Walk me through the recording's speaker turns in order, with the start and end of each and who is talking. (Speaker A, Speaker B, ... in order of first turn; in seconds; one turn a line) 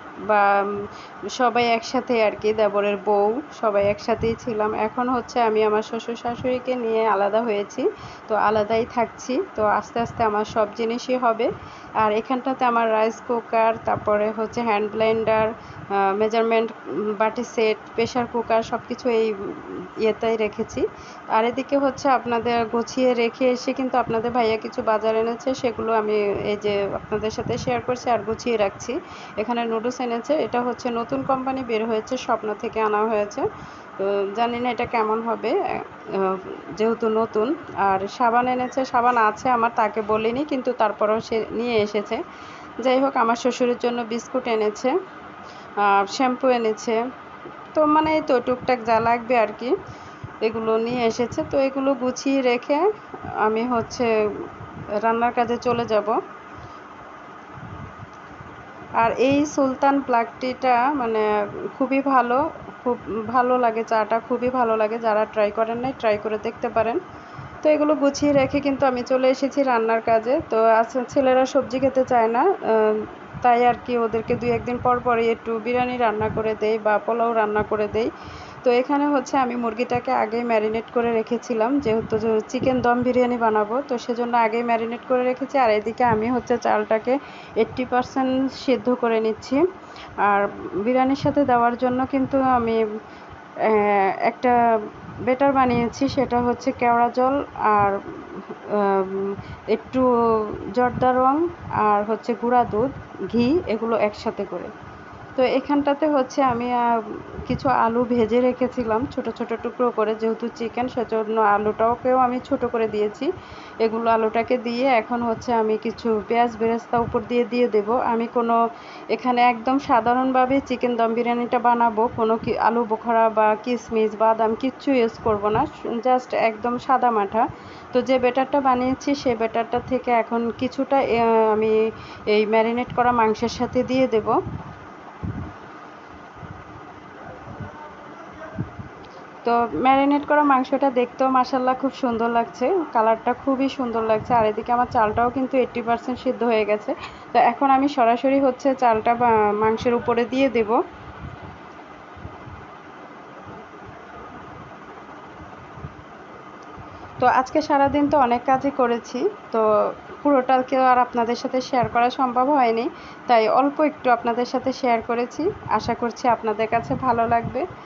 Speaker A: 0.2-33.5
Speaker A: 34.0-35.6
Speaker A: 36.1-42.2
Speaker A: 42.8-44.9
Speaker A: 45.8-47.0
Speaker A: 47.7-49.7
Speaker A: 50.4-52.9
Speaker A: 53.4-54.5
Speaker A: 55.0-56.2
Speaker A: 59.0-67.0
Speaker A: 67.6-78.1
Speaker A: 78.6-89.6
Speaker A: 90.2-92.8
Speaker A: 93.6-104.7
Speaker A: 105.3-113.3
Speaker A: 113.8-118.6
Speaker A: 119.1-131.8
Speaker A: 132.3-134.4
Speaker A: 139.4-150.8
Speaker A: 157.2-167.7